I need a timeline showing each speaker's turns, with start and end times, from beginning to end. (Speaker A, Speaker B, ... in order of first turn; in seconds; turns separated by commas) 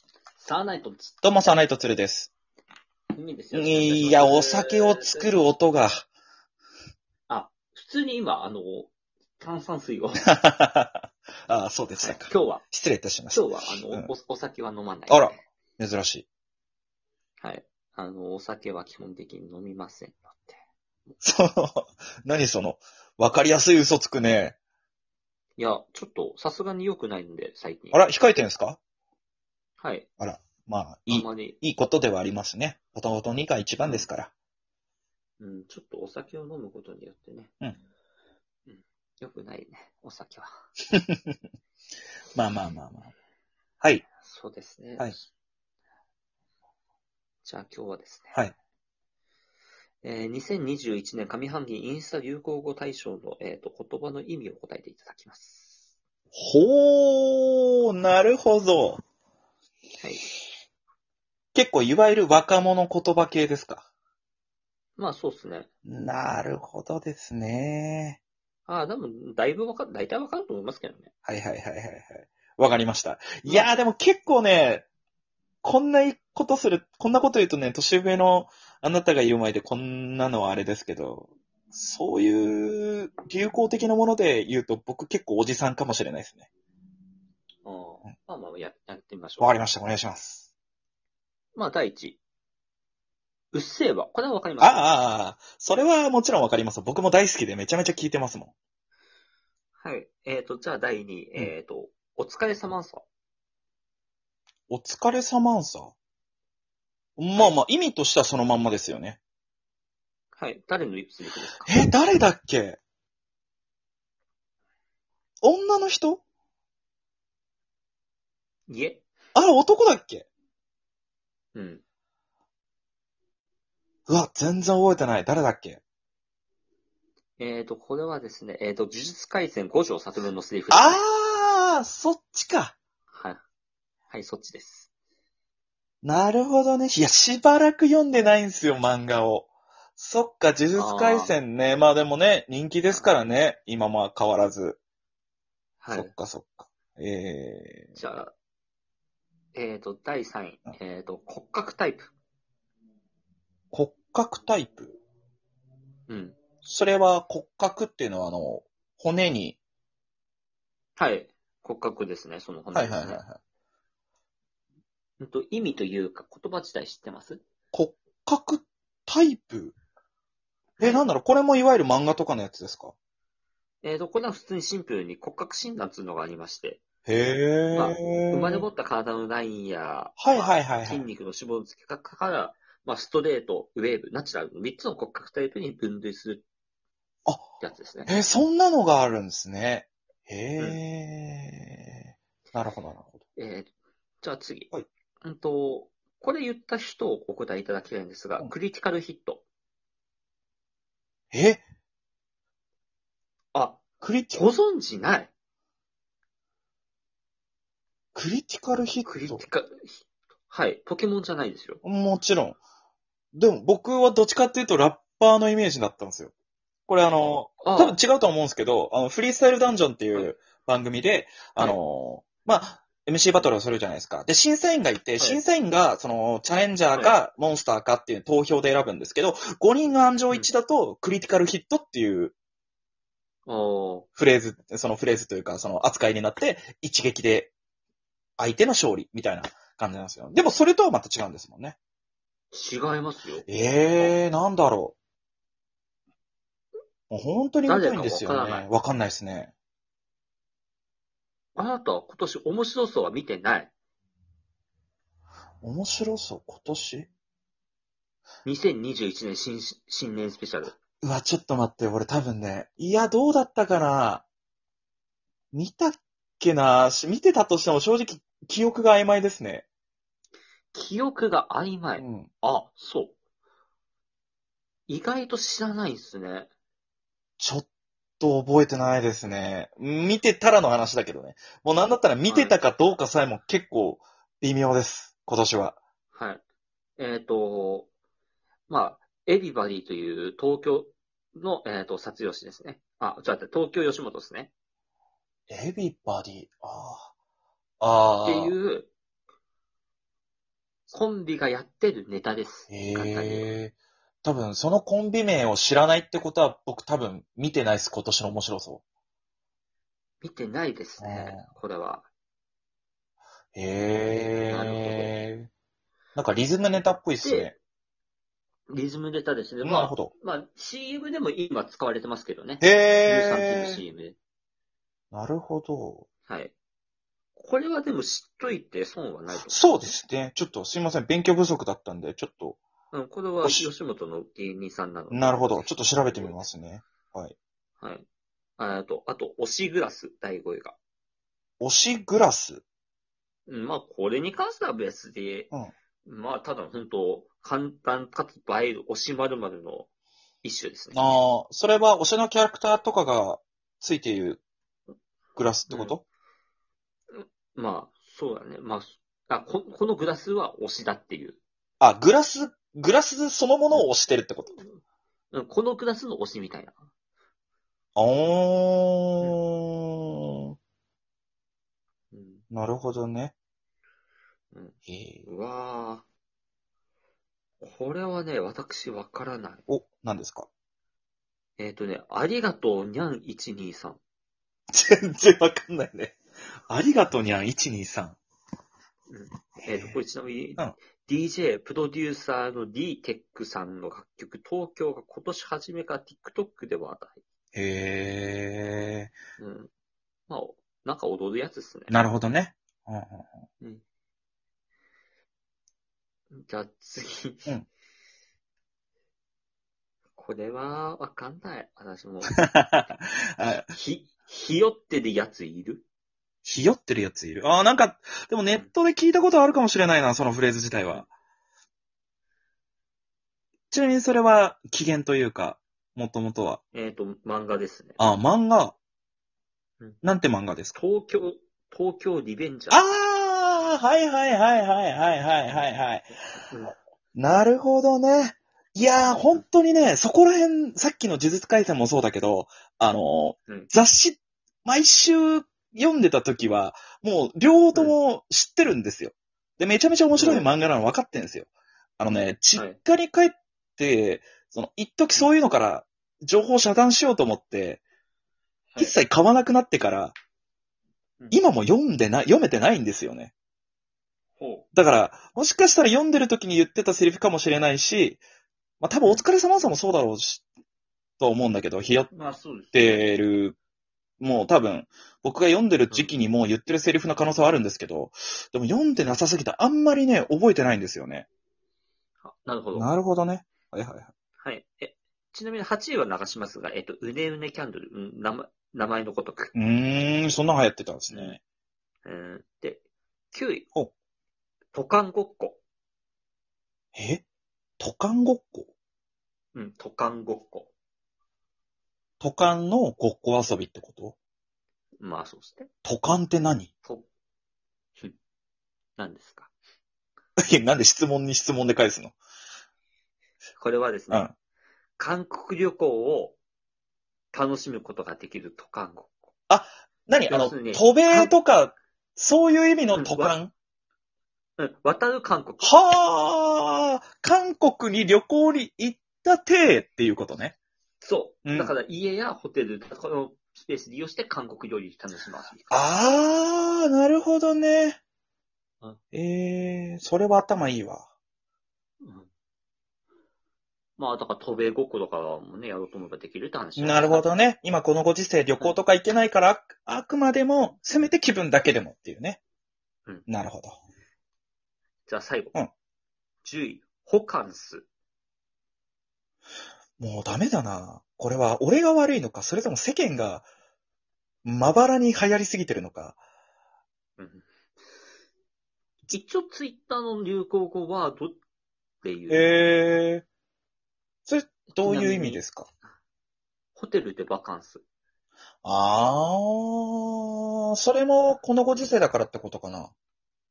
Speaker A: 0.4-1.1, Speaker B: 1.2-2.3, Speaker A: 3.1-5.3, Speaker B: 3.5-6.0, Speaker A: 7.3-10.2, Speaker B: 10.2-14.1, Speaker A: 12.0-12.6, Speaker A: 13.3-15.4, Speaker B: 15.1-16.3, Speaker A: 17.4-20.6, Speaker B: 21.2-24.6, Speaker A: 25.6-28.0, Speaker B: 27.9-28.8, Speaker A: 29.8-30.1, Speaker B: 30.2-34.3, Speaker A: 31.1-31.6, Speaker A: 33.8-34.1, Speaker A: 35.4-37.5, Speaker A: 38.7-40.5, Speaker B: 40.9-41.3, Speaker B: 42.3-43.1, Speaker A: 44.2-45.3, Speaker A: 47.4-48.3, Speaker A: 50.0-55.7, Speaker B: 56.3-59.0, Speaker A: 60.0-60.2, Speaker B: 61.5-63.9, Speaker A: 65.0-65.7, Speaker B: 65.8-68.2, Speaker A: 68.7-71.1, Speaker B: 71.2-74.8, Speaker A: 73.5-73.8, Speaker B: 75.6-86.5, Speaker A: 87.6-89.6, Speaker B: 89.4-90.5, Speaker A: 91.5-92.2, Speaker A: 93.5-94.9, Speaker B: 94.6-98.5, Speaker A: 99.8-103.0, Speaker B: 104.7-105.9, Speaker B: 107.2-109.2, Speaker A: 110.3-111.7, Speaker B: 111.7-112.8, Speaker B: 115.4-116.2, Speaker A: 118.7-119.0, Speaker B: 119.3-120.3, Speaker A: 121.5-121.8, Speaker B: 124.1-125.8, Speaker A: 127.4-131.0, Speaker B: 130.7-132.8, Speaker A: 133.1-133.4, Speaker A: 134.1-134.9, Speaker B: 136.0-144.8, Speaker A: 140.8-141.3, Speaker A: 142.9-143.2, Speaker A: 145.8-146.1, Speaker B: 145.9-147.9, Speaker A: 147.9-148.3, Speaker A: 149.5-152.1, Speaker B: 153.7-155.0, Speaker A: 156.1-156.4, Speaker B: 156.6-159.6, Speaker A: 161.0-163.2, Speaker B: 162.7-163.4, Speaker A: 165.2-167.4, Speaker B: 167.7-169.8, Speaker A: 170.8-171.1, Speaker B: 170.8-172.9, Speaker A: 173.8-176.8, Speaker B: 177.1-178.6, Speaker A: 177.7-186.4, Speaker B: 180.2-181.0, Speaker B: 187.2-187.5, Speaker A: 187.6-188.1, Speaker B: 188.1-193.2, Speaker A: 193.3-194.7, Speaker A: 195.2-199.4, Speaker B: 201.3-201.6, Speaker A: 203.5-205.3, Speaker B: 204.0-204.5, Speaker B: 208.1-209.4, Speaker A: 209.0-211.8, Speaker B: 211.8-212.6, Speaker B: 213.3-216.3, Speaker B: 216.9-232.3, Speaker A: 217.6-218.0, Speaker A: 233.5-234.1, Speaker B: 234.2-237.5, Speaker B: 238.4-241.8, Speaker A: 242.5-244.1, Speaker B: 243.4-244.9, Speaker B: 247.1-249.5, Speaker A: 247.7-248.7, Speaker A: 251.6-253.7, Speaker B: 255.6-257.1, Speaker A: 258.4-260.7, Speaker B: 261.0-264.2, Speaker B: 265.5-269.6, Speaker A: 270.7-273.1, Speaker B: 272.0-272.3, Speaker A: 274.9-276.5, Speaker B: 277.4-277.7, Speaker B: 278.2-285.8, Speaker A: 282.3-282.6, Speaker A: 286.1-286.4, Speaker A: 287.0-287.9, Speaker A: 288.7-294.5, Speaker B: 295.5-297.1, Speaker B: 297.8-298.5, Speaker A: 298.2-298.9, Speaker A: 300.9-303.5, Speaker B: 302.7-308.8, Speaker A: 310.2-312.1, Speaker B: 311.0-311.5, Speaker B: 313.5-315.5, Speaker A: 314.2-315.1, Speaker B: 316.1-317.5, Speaker A: 317.2-317.5, Speaker A: 318.7-324.2, Speaker B: 319.6-320.1, Speaker B: 322.6-323.8, Speaker B: 325.1-326.1, Speaker A: 326.3-326.5, Speaker A: 327.4-329.9, Speaker B: 329.3-332.6, Speaker A: 332.9-336.4, Speaker B: 333.4-333.7, Speaker B: 335.1-337.3, Speaker A: 337.8-338.0, Speaker A: 338.6-340.8, Speaker B: 341.6-342.6, Speaker A: 343.5-345.5, Speaker A: 346.0-349.9, Speaker A: 350.4-351.1, Speaker B: 350.9-354.4, Speaker B: 355.4-356.0, Speaker A: 355.7-355.9, Speaker A: 357.1-361.4, Speaker B: 361.8-364.6, Speaker A: 365.3-366.8, Speaker B: 367.9-370.5, Speaker A: 372.1-372.4, Speaker B: 372.5-373.3, Speaker A: 374.5-376.0, Speaker B: 374.9-375.3, Speaker A: 377.6-379.6, Speaker B: 379.7-380.5, Speaker A: 381.6-384.0, Speaker B: 384.7-388.2, Speaker A: 389.1-397.2, Speaker B: 389.6-390.0, Speaker B: 397.5-399.1, Speaker A: 399.4-399.7, Speaker A: 400.3-402.0, Speaker B: 401.9-403.3, Speaker A: 406.3-407.5, Speaker A: 410.1-412.4, Speaker B: 412.3-413.7, Speaker A: 413.6-415.8, Speaker B: 416.4-421.1, Speaker B: 423.7-426.6, Speaker A: 426.7-428.0, Speaker B: 428.0-428.7, Speaker B: 430.0-430.8, Speaker A: 430.7-432.8, Speaker B: 432.7-436.1, Speaker A: 436.4-436.7, Speaker B: 437.1-457.8, Speaker A: 450.2-450.5, Speaker B: 458.8-460.1, Speaker B: 461.3-463.3, Speaker A: 464.4-464.7, Speaker B: 464.7-468.2, Speaker B: 468.8-470.4, Speaker B: 471.2-472.1, Speaker A: 472.1-473.2, Speaker B: 472.7-473.6, Speaker B: 474.2-481.3, Speaker A: 482.2-482.9, Speaker B: 482.7-484.1, Speaker A: 484.4-489.5, Speaker B: 489.5-491.4, Speaker A: 491.1-491.4, Speaker A: 492.0-493.6, Speaker A: 494.7-495.6, Speaker B: 496.9-497.2, Speaker B: 497.8-498.7, Speaker A: 499.5-500.7, Speaker B: 502.2-504.1, Speaker A: 505.0-505.7, Speaker B: 505.8-506.7, Speaker A: 509.0-509.5, Speaker B: 510.4-512.1, Speaker A: 513.6-514.2, Speaker A: 515.0-516.4, Speaker A: 517.3-519.1, Speaker B: 519.5-523.5, Speaker A: 520.3-521.3, Speaker A: 522.9-523.3, Speaker A: 524.6-525.8, Speaker B: 525.6-530.5, Speaker A: 531.0-535.8, Speaker B: 531.4-531.7, Speaker B: 535.7-538.0, Speaker B: 539.1-541.0, Speaker A: 542.0-542.3, Speaker A: 544.0-547.3, Speaker B: 546.8-552.4, Speaker B: 553.3-553.8, Speaker A: 555.0-555.5, Speaker A: 556.4-557.9, Speaker B: 560.0-563.5, Speaker B: 564.4-566.2, Speaker A: 567.2-567.5, Speaker A: 569.1-571.4, Speaker A: 572.0-572.7, Speaker B: 572.3-573.2, Speaker B: 574.3-575.7, Speaker A: 574.7-575.4, Speaker A: 576.8-577.8, Speaker B: 578.6-582.9